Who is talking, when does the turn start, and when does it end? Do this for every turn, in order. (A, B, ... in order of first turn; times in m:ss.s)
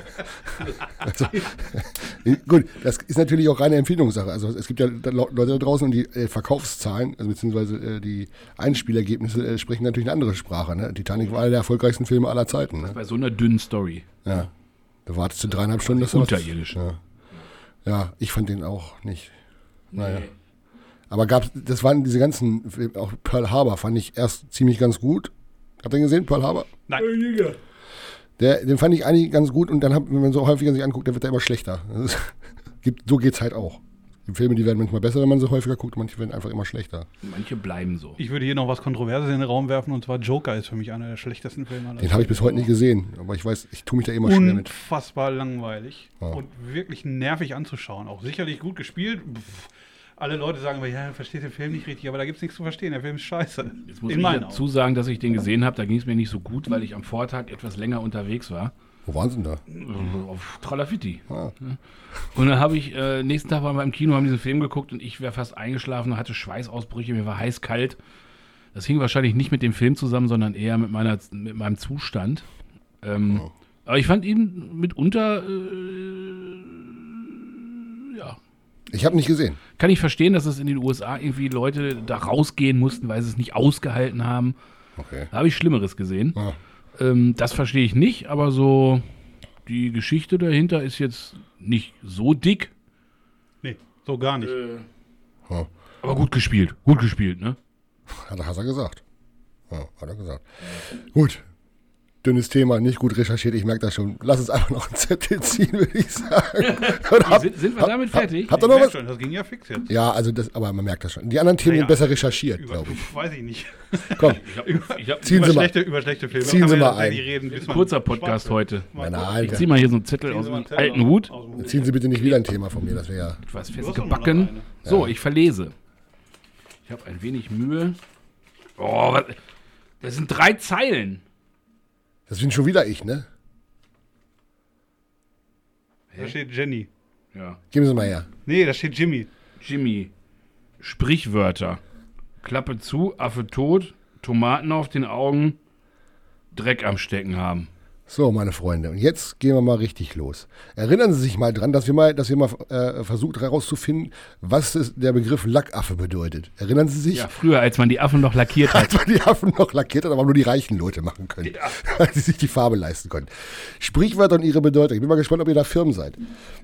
0:01.0-0:13.0 A
0:12.8-0:14.1 B
0:15.0-0:17.0 A
0:15.6-0:16.8 B
0:17.8-0:19.3 A
0:19.9-0:20.3 B
0:20.0-0:20.2 A
0:21.1-0:26.7 A
0:27.0-0:27.6 B
0:28.4-0:37.1 A
0:37.2-0:38.2 B
0:38.2-0:42.7 C
0:42.0-0:44.7 A
0:44.2-0:54.6 C
0:53.8-0:58.7 B
0:59.0-0:59.6 A
0:59.7-1:01.8 B
1:02.3-1:08.0 B
1:08.7-1:12.5 B
1:13.0-1:18.4 B
1:18.9-1:19.6 A
1:19.8-1:24.5 B
1:25.0-1:25.3 A
1:25.3-1:26.4 B
1:27.0-1:29.0 B
1:29.6-1:32.7 B
1:33.6-1:34.5 C
1:34.4-1:34.8 B
1:36.0-1:37.6 B
1:38.1-1:39.0 A
1:39.7-1:41.4 A
1:42.2-1:49.0 A
1:46.6-1:48.5 B
1:48.5-1:49.9 C
1:49.9-1:53.1 A
1:51.6-2:02.0 C
1:54.2-1:54.4 A
1:54.3-1:55.5 B
1:55.2-1:55.7 A
1:56.3-1:57.2 A
1:57.4-1:58.9 B
1:59.0-1:59.7 A
1:59.4-2:01.3 B
2:01.6-2:03.4 A
2:03.4-2:05.7 B
2:03.8-2:04.7 C
2:04.8-2:05.1 A
2:06.8-2:08.0 B
2:08.8-2:09.4 B
2:10.0-2:11.2 B
2:12.3-2:13.3 A
2:16.2-2:16.9 C
2:17.3-2:17.6 B
2:17.7-2:18.3 A
2:18.4-2:19.3 C
2:19.6-2:20.1 B
2:20.8-2:21.8 B
2:22.4-2:25.6 B
2:26.5-2:27.7 B
2:28.1-2:37.3 A
2:37.1-2:39.0 B
2:38.6-2:46.2 A
2:41.4-2:41.8 B